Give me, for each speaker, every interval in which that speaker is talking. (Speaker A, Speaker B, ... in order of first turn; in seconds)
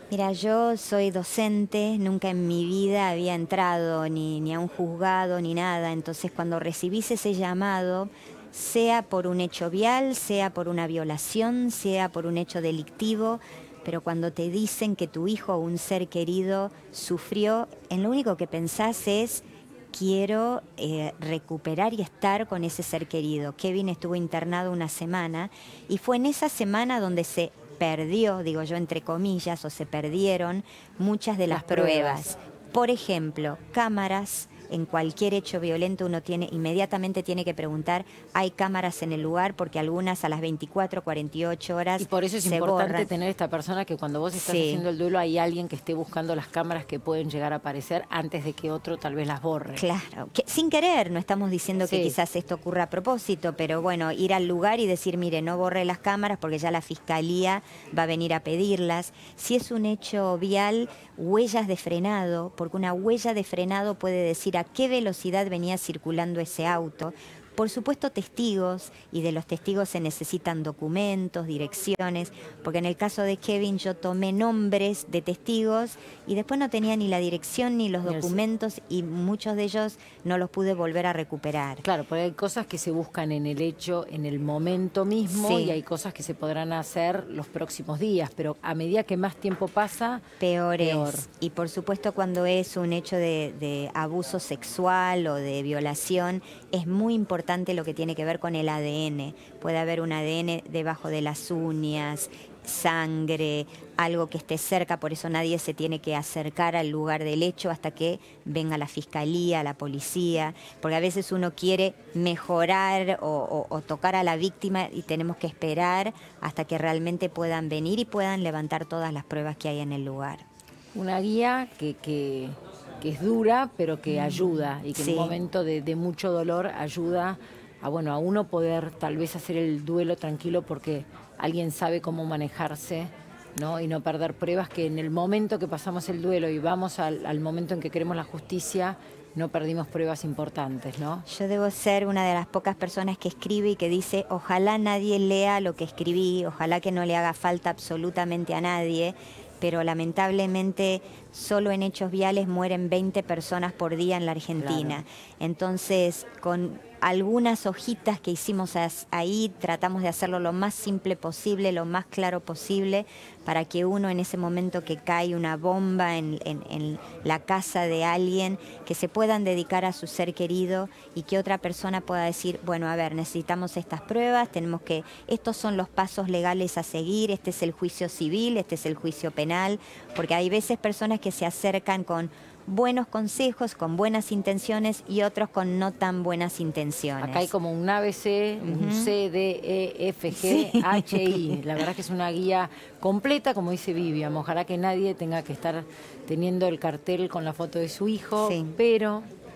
Speaker A: 0.1-43.1, 44.3-44.8, 49.7-81.8, 85.3-85.8, 90.4-120.4, 124.1-125.3, 141.3-187.5, 188.6-189.1, 190.3-191.6, 198.4-198.8
Speaker B: 31.5-32.3, 42.0-49.9, 51.9-52.1, 78.0-78.4, 81.8-90.2, 90.8-91.2, 120.9-141.2, 154.6-155.0, 187.2-199.3